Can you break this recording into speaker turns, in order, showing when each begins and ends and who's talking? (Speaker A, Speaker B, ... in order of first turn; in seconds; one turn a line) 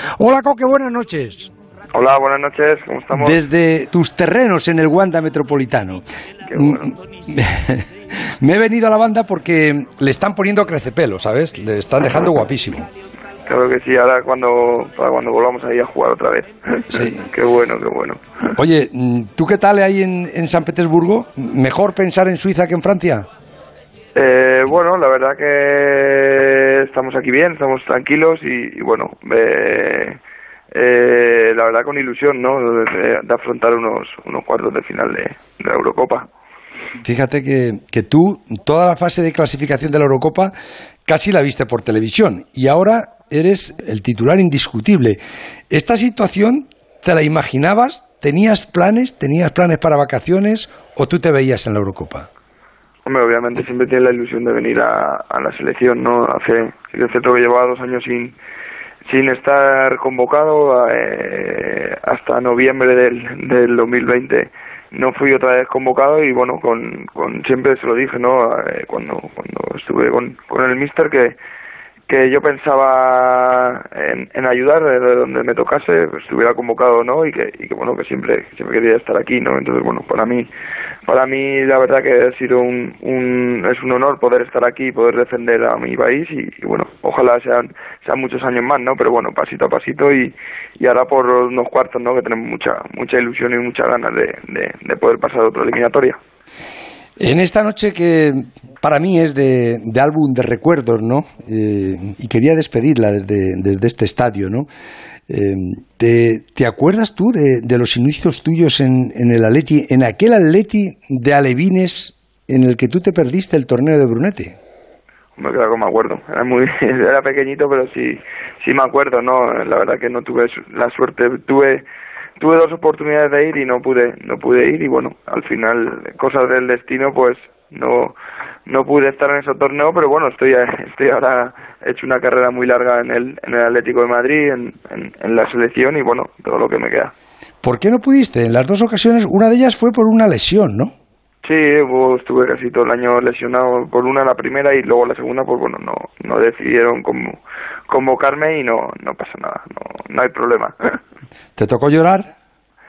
Speaker A: 0.2-1.5
Speaker B: 1.9-3.4
Speaker A: 3.1-6.0
Speaker B: 6.5-6.9
Speaker A: 6.6-12.9
Speaker B: 13.5-18.6
Speaker A: 16.9-17.2
Speaker A: 18.6-23.3
Speaker B: 24.1-30.2
Speaker B: 30.7-36.3
Speaker A: 37.0-40.5
Speaker A: 41.1-45.2
Speaker A: 45.7-52.3
Speaker B: 53.0-58.4
Speaker B: 59.1-71.4
Speaker B: 72.1-80.5
Speaker B: 81.1-96.2
Speaker A: 97.2-104.7
Speaker A: 105.3-114.6
Speaker B: 115.4-121.8
Speaker B: 122.4-137.1
Speaker A: 137.6-140.9
Speaker B: 141.4-151.0
Speaker A: 151.6-152.3